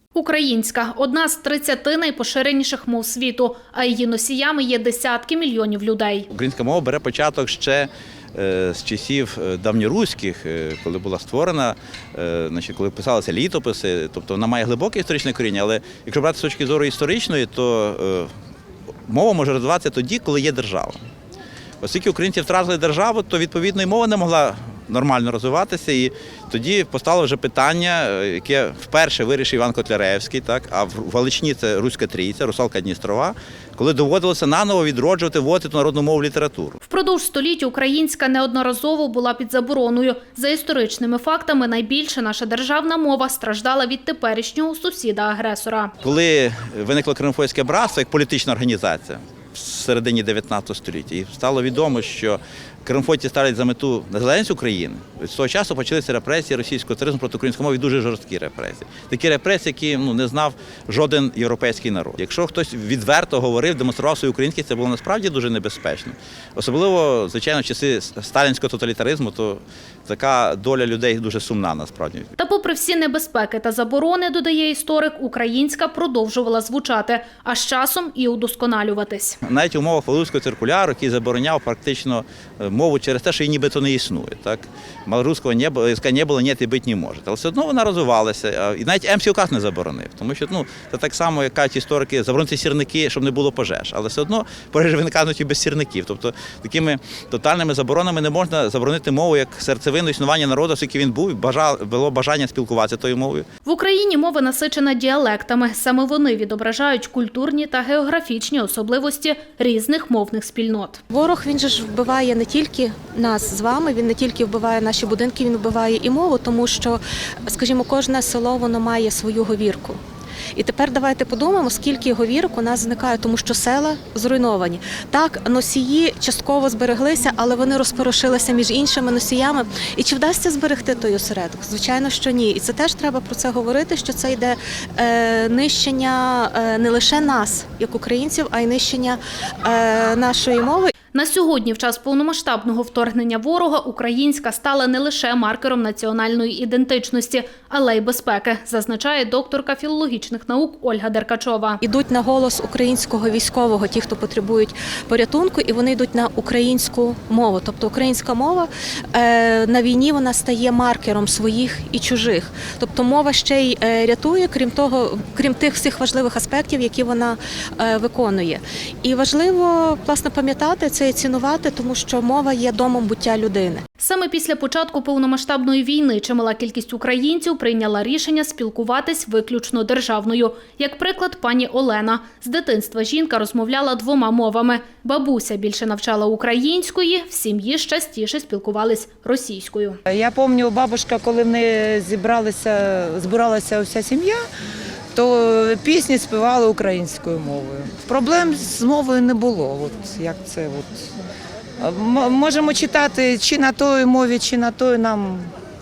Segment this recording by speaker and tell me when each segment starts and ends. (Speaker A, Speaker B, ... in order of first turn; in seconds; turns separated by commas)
Speaker A: 0.1-6.2, Speaker B: 6.3-18.3, Speaker B: 19.1-21.0, Speaker B: 21.8-36.8, Speaker A: 36.9-45.9, Speaker B: 46.0-72.3, Speaker A: 72.4-79.4, Speaker B: 79.4-103.5, Speaker A: 103.6-111.0, Speaker C: 111.1-120.0, Speaker C: 120.5-140.9, Speaker A: 141.1-151.8, Speaker C: 151.8-173.8, Speaker A: 174.0-190.0, Speaker D: 190.1-194.4, Speaker D: 195.2-200.9, Speaker D: 201.8-205.5